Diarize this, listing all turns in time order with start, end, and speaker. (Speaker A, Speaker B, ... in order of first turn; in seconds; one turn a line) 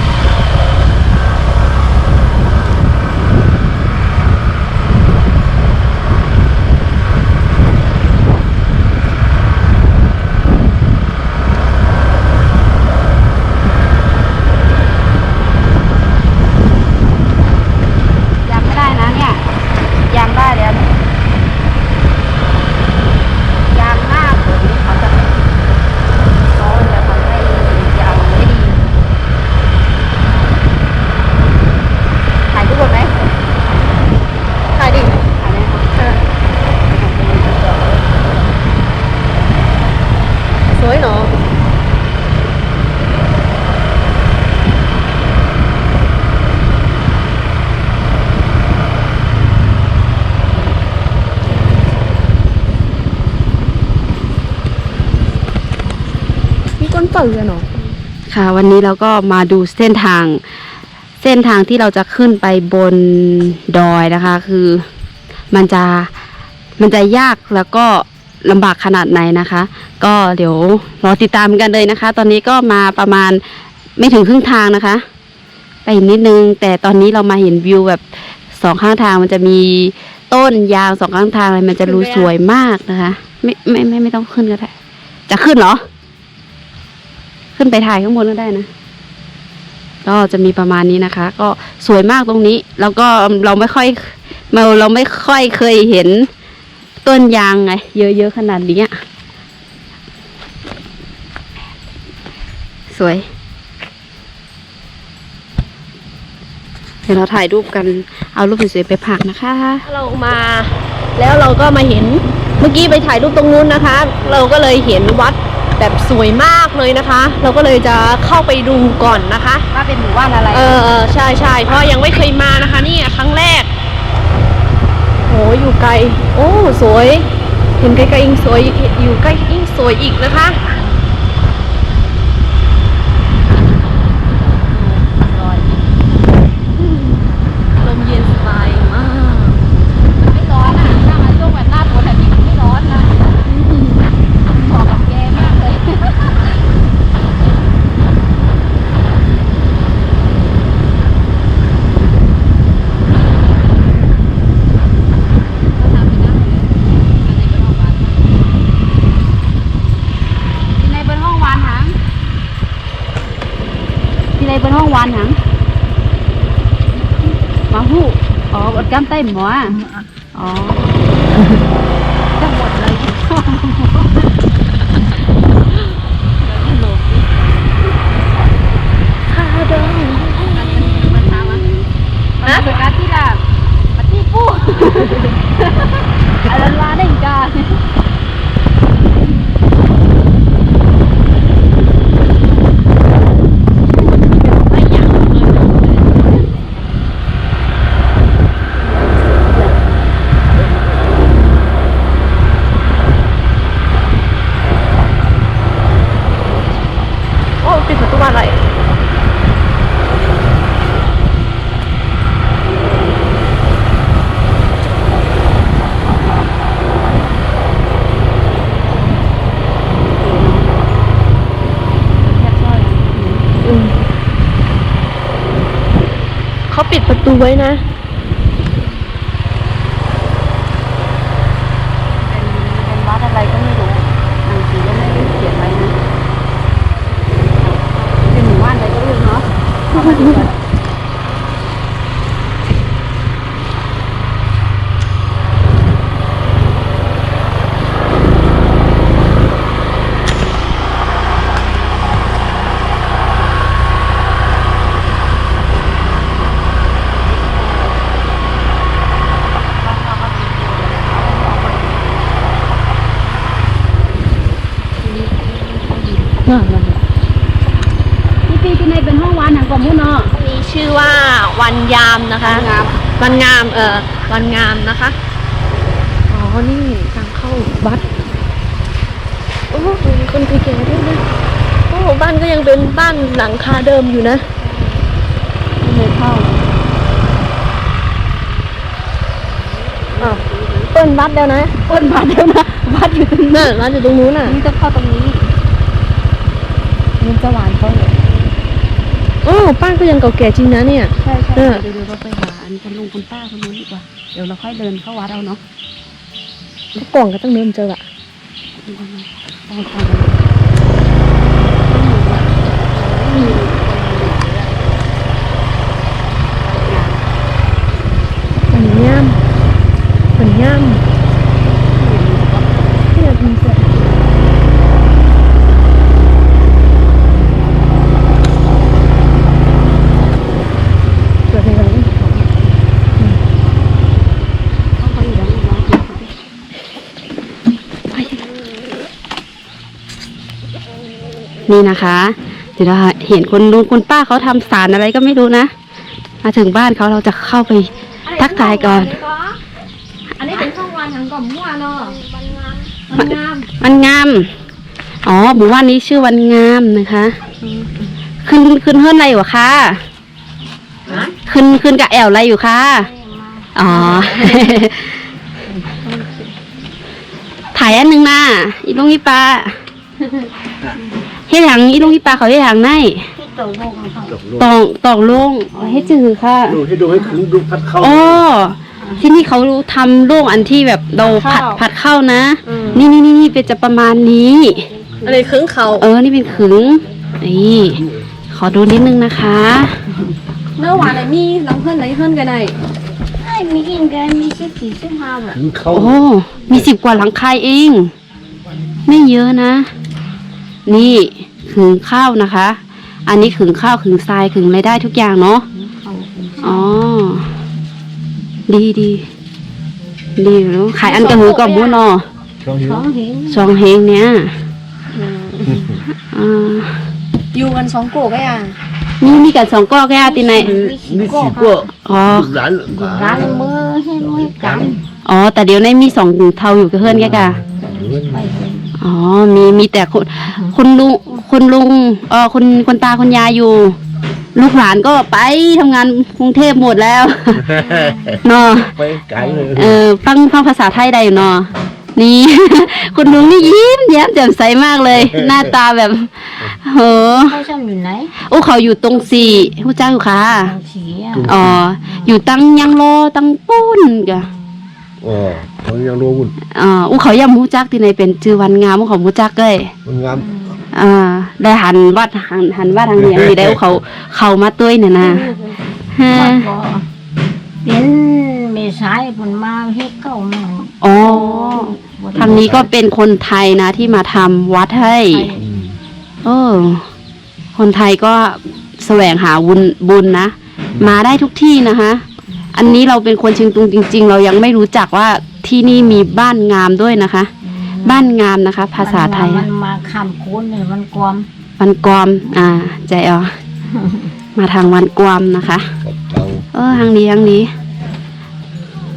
Speaker A: 18.4-19.4
Speaker A: 20.1-20.9
Speaker A: 23.6-25.8
Speaker A: 26.4-28.8
Speaker A: 32.5-33.2
Speaker B: 34.7-35.2
Speaker A: 35.3-35.9
Speaker B: 36.0-36.2
Speaker A: 36.9-38.6
Speaker B: 40.7-41.3
Speaker B: 56.8-57.7
Speaker A: 58.3-60.4
Speaker A: 61.2-64.8
Speaker A: 65.5-66.1
Speaker A: 66.8-73.4
Speaker A: 74.0-75.0
Speaker A: 75.8-84.7
Speaker B: 81.8-82.3
Speaker A: 85.3-85.8
Speaker A: 87.6-88.7
Speaker A: 90.0-96.3
Speaker A: 97.0-99.0
Speaker A: 102.9-103.3
Speaker A: 107.1-109.9
Speaker B: 109.8-119.7
Speaker A: 119.7-120.8
Speaker B: 120.5-123.7
Speaker B: 125.3-127.3
Speaker B: 127.8-130.6
Speaker A: 134.5-135.8
Speaker B: 137.8-139.6
Speaker A: 140.2-143.3
Speaker A: 144.5-146.5
Speaker A: 155.7-158.4
Speaker A: 160.8-162.0
Speaker A: 164.4-165.4
Speaker A: 167.7-169.8
Speaker A: 170.3-171.0
Speaker A: 172.4-174.3
Speaker A: 176.4-177.8
Speaker B: 179.3-181.3
Speaker A: 180.4-181.7
Speaker A: 182.4-183.4
Speaker B: 182.4-182.7
Speaker A: 184.0-187.8
Speaker A: 194.4-196.9
Speaker B: 199.2-199.7
Speaker B: 207.6-208.6
Speaker A: 220.2-220.7
Speaker A: 222.2-223.6
Speaker B: 223.6-223.9
Speaker B: 226.7-227.8
Speaker A: 232.1-236.0
Speaker A: 237.4-240.6
Speaker B: 240.0-240.5
Speaker A: 257.1-258.2
Speaker A: 259.6-262.5
Speaker A: 265.0-266.5
Speaker B: 266.5-266.9
Speaker A: 268.5-270.3
Speaker B: 270.3-275.1
Speaker A: 272.4-273.0
Speaker B: 276.3-278.0
Speaker B: 279.7-281.2
Speaker B: 281.9-284.5
Speaker A: 285.8-286.8
Speaker A: 290.0-290.9
Speaker B: 290.2-291.8
Speaker A: 291.9-293.8
Speaker B: 293.5-294.6
Speaker A: 294.4-295.5
Speaker B: 297.2-298.3
Speaker B: 299.4-301.8
Speaker A: 301.1-305.6
Speaker B: 306.9-308.0
Speaker A: 308.9-310.4
Speaker A: 311.8-314.9
Speaker A: 316.6-317.2
Speaker B: 318.7-319.4
Speaker B: 320.4-321.0
Speaker A: 321.9-322.9
Speaker B: 323.1-323.9
Speaker B: 331.5-332.2
Speaker A: 335.0-336.3
Speaker A: 338.1-338.4
Speaker A: 341.7-345.7
Speaker A: 346.4-349.2
Speaker B: 348.2-349.6
Speaker B: 350.4-352.2
Speaker C: 351.9-352.9
Speaker B: 353.1-353.7
Speaker A: 353.1-354.5
Speaker A: 355.2-357.4
Speaker A: 358.4-360.0
Speaker C: 361.1-361.3
Speaker A: 361.4-363.1
Speaker C: 362.9-364.6
Speaker A: 363.8-365.2
Speaker B: 364.0-364.3
Speaker A: 367.7-369.8
Speaker A: 371.5-373.3
Speaker C: 373.4-374.4
Speaker D: 374.3-374.7
Speaker A: 374.6-376.8
Speaker D: 376.7-378.4
Speaker A: 378.0-384.9
Speaker C: 379.0-379.3
Speaker B: 381.2-381.8
Speaker B: 382.7-383.1
Speaker C: 384.9-385.5
Speaker B: 385.2-386.1
Speaker A: 386.0-390.0
Speaker B: 390.8-392.8
Speaker C: 393.4-395.6
Speaker D: 395.5-396.9
Speaker A: 395.9-398.1
Speaker A: 399.1-399.9
Speaker A: 400.9-405.7
Speaker C: 405.7-407.0
Speaker A: 406.6-407.5
Speaker A: 408.7-409.3
Speaker A: 410.4-412.3
Speaker B: 411.0-412.0
Speaker D: 412.6-413.0
Speaker C: 412.8-413.8
Speaker A: 413.5-414.5
Speaker B: 415.1-416.0
Speaker A: 416.1-416.9
Speaker B: 417.5-418.8
Speaker A: 419.2-421.0
Speaker C: 420.2-421.9
Speaker D: 421.0-423.8
Speaker A: 422.1-422.6
Speaker C: 422.9-425.0
Speaker D: 424.3-425.0
Speaker A: 425.2-427.6
Speaker D: 427.0-428.5
Speaker C: 427.8-429.0
Speaker A: 429.0-434.0
Speaker A: 434.6-437.8
Speaker D: 437.6-440.0
Speaker C: 437.8-438.4
Speaker A: 438.4-439.0
Speaker C: 439.4-439.7
Speaker A: 439.8-447.6
Speaker D: 443.3-443.7
Speaker D: 445.1-445.7
Speaker C: 447.3-448.3
Speaker A: 448.4-450.7
Speaker C: 449.2-449.7
Speaker C: 450.5-452.4
Speaker D: 451.3-451.8
Speaker A: 451.4-454.5
Speaker D: 455.2-456.5
Speaker A: 456.7-459.9
Speaker D: 460.1-460.5
Speaker C: 460.4-460.8
Speaker A: 460.9-465.5
Speaker D: 463.2-463.8
Speaker B: 465.2-465.7
Speaker A: 466.1-466.7
Speaker C: 466.2-467.1
Speaker C: 467.8-472.9
Speaker A: 471.0-475.5
Speaker D: 472.4-472.9
Speaker B: 475.3-475.6
Speaker D: 475.6-475.9
Speaker A: 476.4-477.1
Speaker A: 477.8-482.2
Speaker A: 482.7-489.7
Speaker C: 487.6-488.3
Speaker C: 489.0-491.5
Speaker A: 491.8-493.6
Speaker C: 493.9-494.3
Speaker A: 494.6-495.9
Speaker D: 496.0-497.1
Speaker A: 496.7-497.7